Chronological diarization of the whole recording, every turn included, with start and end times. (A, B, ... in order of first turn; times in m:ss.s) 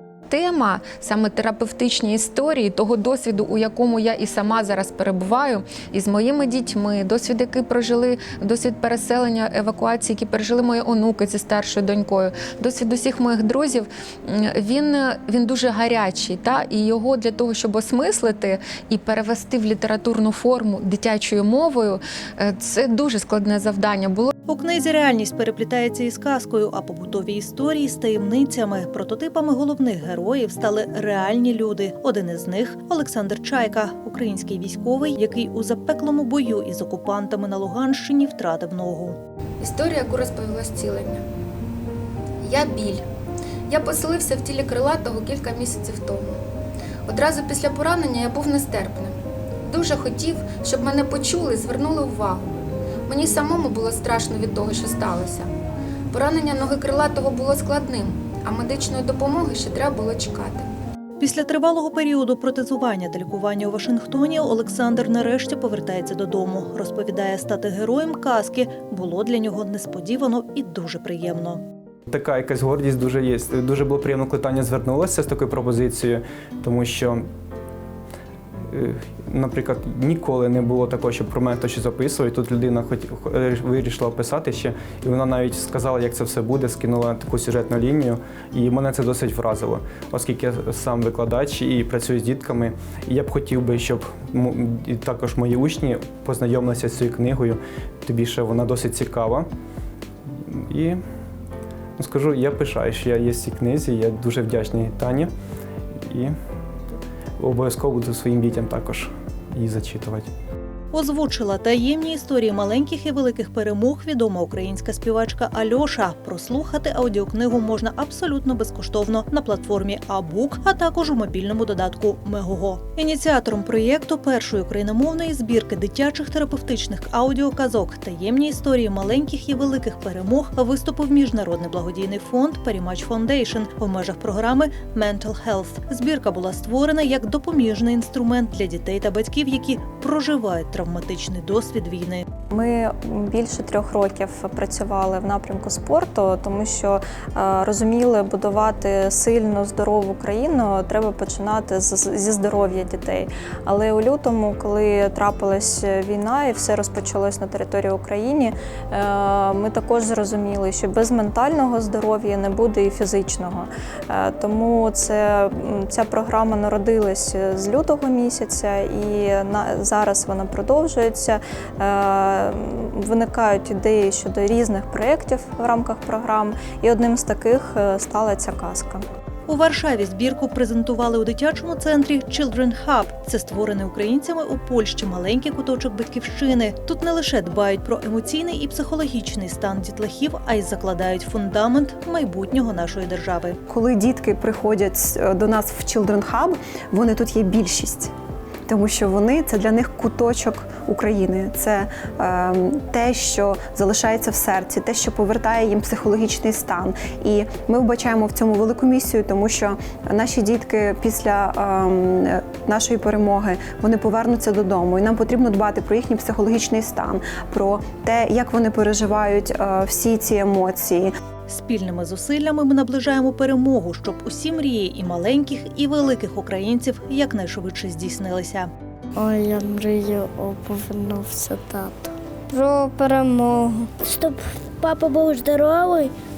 0:00.3-0:24.3 A
0:24.5-0:39.2 B
0:39.6-0:41.2 A
0:42.4-0:43.0 A
0:43.7-0:46.4 A
0:47.1-0:52.5 A
0:53.1-0:55.5 A
0:56.1-1:00.7 A
1:01.2-1:11.6 B
1:12.1-1:17.2 C
1:18.7-1:39.5 C
1:40.5-1:41.0 C
1:42.0-1:45.3 C
1:46.1-1:46.3 C
1:47.4-1:50.3 C
1:50.9-2:22.2 B
2:22.5-2:59.0 D
2:59.5-3:13.6 B
3:13.7-3:18.1 E
3:18.7-3:41.1 E
3:41.5-3:48.7 B
3:49.2-3:53.9 F
3:54.0-3:56.1 G